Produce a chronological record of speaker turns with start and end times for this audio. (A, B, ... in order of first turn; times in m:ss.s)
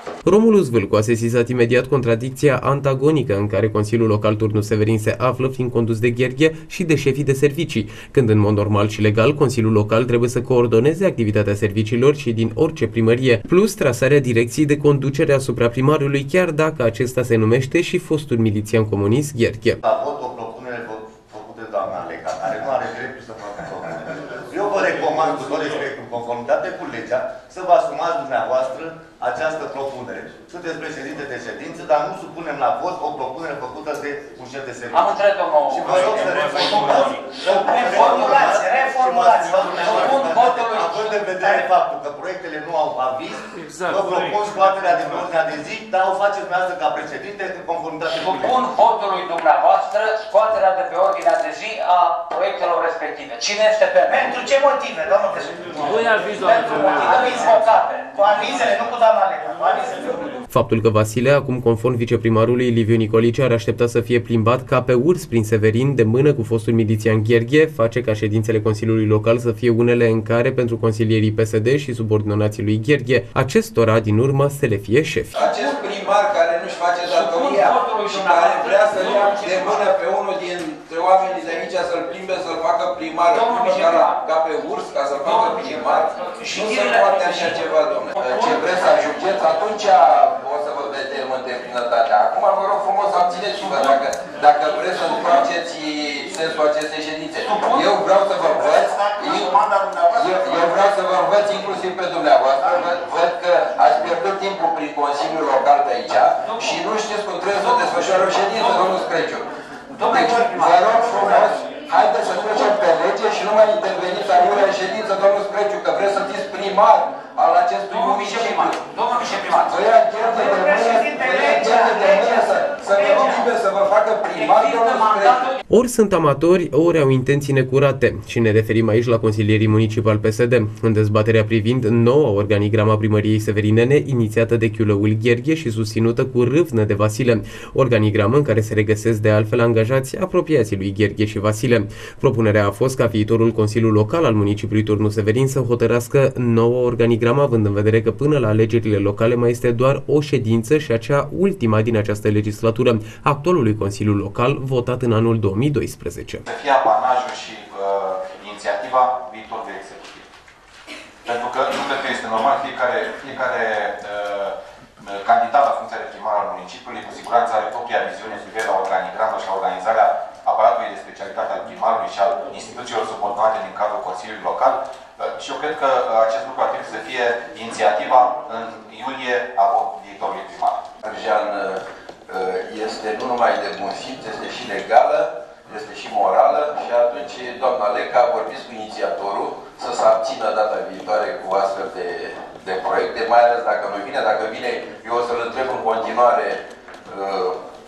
0:00.2-0:19.8 A
0:19.8-0:35.2 B
0:34.9-0:37.0 C
0:35.7-0:48.6 B
0:37.4-0:40.2 D
0:39.8-0:41.1 C
0:41.4-0:41.6 D
0:48.2-0:54.1 C
0:54.1-1:00.4 D
0:56.2-0:57.5 C
1:00.5-1:15.3 A
1:15.3-1:49.5 E
1:15.3-1:15.8 C
1:17.0-1:19.9 C
1:23.3-1:24.2 C
1:25.2-1:28.9 C
1:37.4-1:37.9 C
1:46.3-1:46.8 C
1:47.6-1:49.0 C
1:49.9-1:51.5 C
1:50.0-1:58.8 E
1:57.9-1:59.8 C
1:59.6-2:05.5 E
2:00.2-2:03.5 D
2:04.3-2:05.6 C
2:05.7-2:36.4 A
2:36.4-2:40.3 F
2:41.2-3:00.8 F
3:01.0-3:17.6 E